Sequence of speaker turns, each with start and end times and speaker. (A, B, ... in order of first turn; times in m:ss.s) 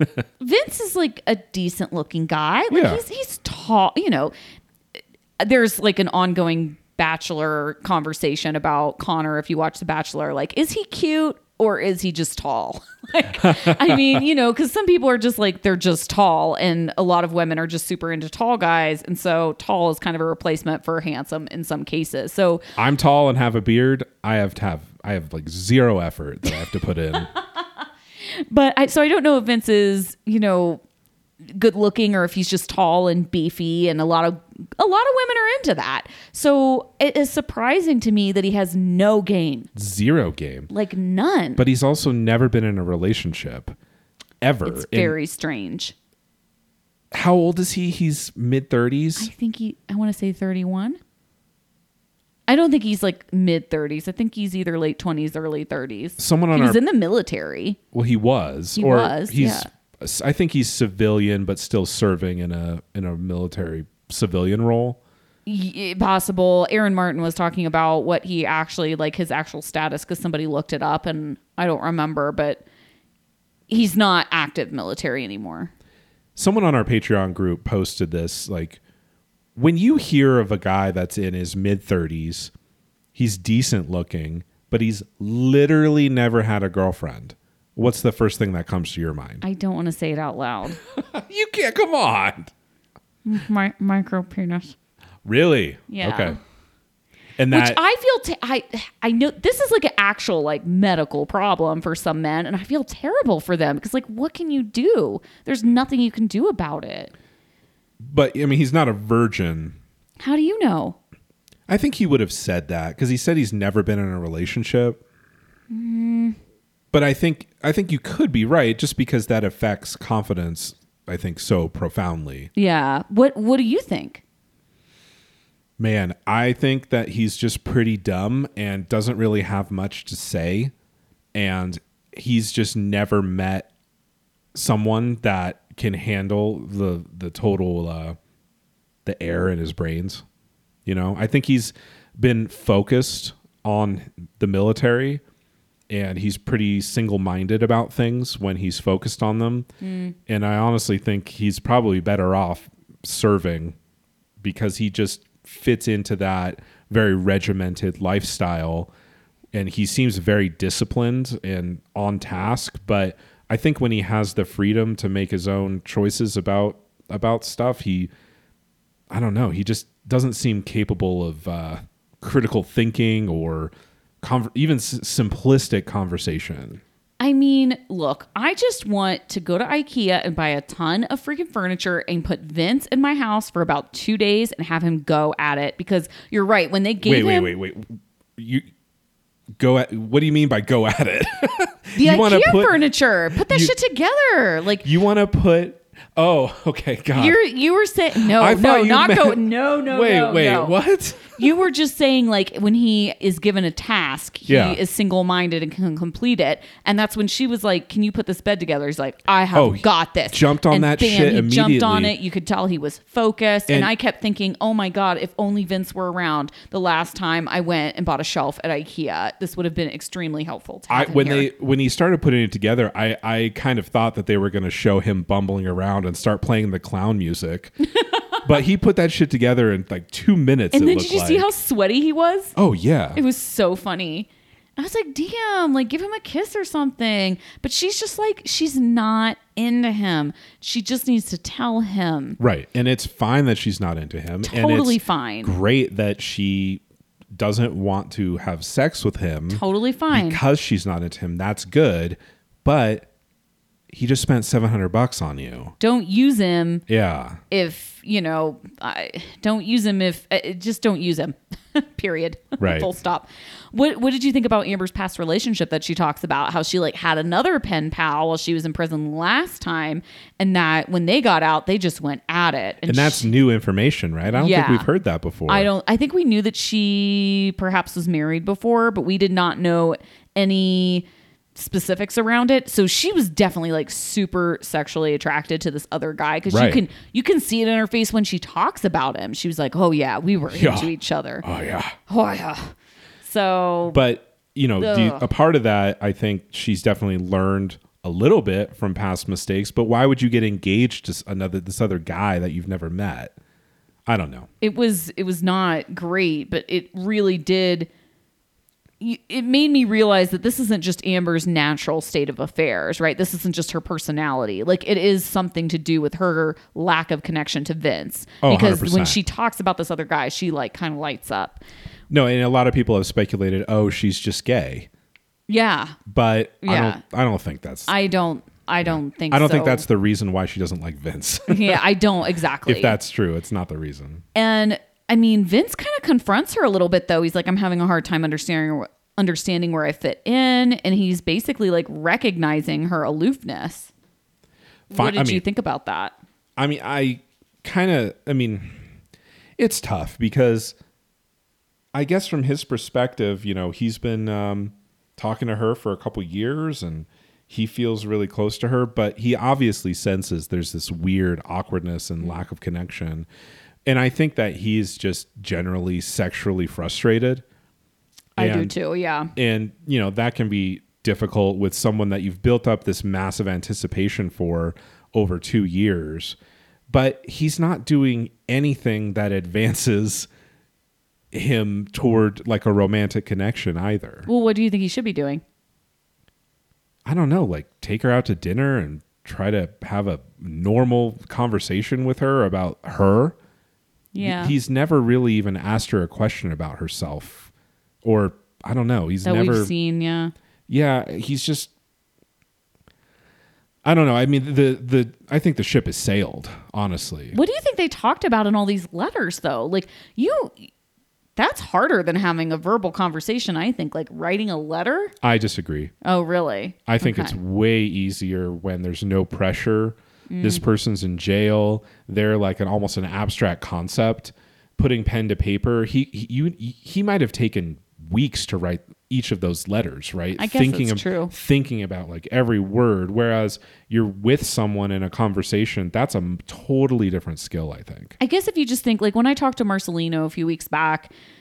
0:00.4-0:04.3 A
0:02.7-0:03.0 B
0:05.4-0:22.6 A
0:13.4-0:14.2 B
0:22.8-0:27.3 B
0:28.2-0:30.8 A
0:31.5-0:39.7 A
0:39.8-0:40.7 B
0:40.7-0:41.6 A
0:41.6-0:43.8 B
0:44.4-0:45.2 B
0:44.6-0:45.9 A
0:47.1-0:49.3 B
0:49.2-0:51.0 A
0:52.5-0:57.8 A
0:56.2-0:56.8 B
0:57.9-1:05.0 B
0:58.8-0:59.7 A
1:05.5-1:12.6 A
1:13.7-1:15.7 A
1:16.4-1:18.8 B
1:19.6-1:22.5 B
1:23.2-1:29.4 B
1:29.4-1:30.8 A
1:30.9-1:32.5 B
1:33.2-1:34.7 A
1:35.2-1:36.4 B
1:35.9-1:36.4 A
1:37.4-1:37.8 B
1:37.5-1:47.1 A
1:48.0-1:49.8 B
1:50.2-1:51.0 A
1:51.7-1:55.0 B
1:55.7-1:56.4 A
1:56.9-2:02.5 B
2:02.6-2:04.2 A
2:05.8-2:10.7 B
2:11.4-2:13.7 B
2:14.5-2:18.2 B
2:19.0-2:20.2 B
2:20.9-2:25.2 B
2:25.9-2:29.7 B
2:29.8-2:30.2 A
2:30.3-2:33.8 B
2:34.4-2:38.9 B
2:39.5-2:48.1 B
2:49.1-2:56.8 B
2:57.2-3:07.5 A
3:07.0-3:08.6 B
3:09.6-3:12.8 B
3:12.0-3:14.9 A
3:13.4-3:13.7 B
3:14.8-3:17.4 B
3:17.2-3:20.8 A
3:18.1-3:21.4 B
3:21.4-3:41.5 A
3:24.5-3:24.8 B
3:29.5-3:32.2 B
3:40.9-3:47.7 B
3:48.0-3:48.4 A
3:48.4-3:51.5 B
3:50.7-3:52.6 A
3:52.6-3:53.2 B
3:53.2-4:02.4 A
4:02.4-4:06.8 B
4:04.4-4:05.6 A
4:07.3-4:13.1 B
4:09.5-4:10.4 A
4:13.9-4:15.8 B
4:15.8-4:16.8 A
4:16.9-4:17.4 B
4:17.5-4:33.3 A
4:22.6-4:22.9 B
4:32.9-4:35.7 B
4:34.3-4:34.9 A
4:35.5-4:51.4 A
4:46.5-4:46.8 B
4:50.5-4:50.9 B
4:51.4-4:52.0 B
4:52.1-4:54.0 A
4:53.9-5:03.3 B
4:54.8-4:55.3 A
5:04.1-5:04.5 B
5:04.6-5:07.9 A
5:09.0-5:21.6 A
5:18.4-5:19.2 B
5:22.1-5:24.9 B
5:25.5-5:26.0 A
5:26.1-5:27.9 B
5:26.6-5:27.0 A
5:27.9-5:29.8 A
5:28.8-5:31.9 B
5:31.5-5:33.0 A
5:32.6-5:34.2 B
5:34.4-5:43.9 A
5:44.9-5:45.4 B
5:44.9-5:46.2 A
5:46.6-5:48.8 B
5:49.6-5:50.8 B
5:51.9-6:03.3 B
6:03.8-6:07.4 B
6:08.4-6:09.3 A
6:08.4-6:08.8 B
6:09.4-6:16.4 B
6:16.9-6:20.3 B
6:21.3-6:24.3 B
6:24.3-6:25.4 A
6:27.0-6:33.4 B
6:34.1-6:34.6 A
6:34.2-6:37.5 B
6:38.0-6:39.7 B
6:39.2-6:40.3 A
6:40.7-6:41.7 B
6:43.8-6:47.4 B
6:47.3-6:50.7 A
6:51.4-6:55.1 A
6:55.2-6:55.9 B
6:56.0-6:57.4 A
6:56.9-7:18.2 B
7:00.3-7:00.6 A
7:10.4-7:11.3 A
7:18.2-7:21.1 A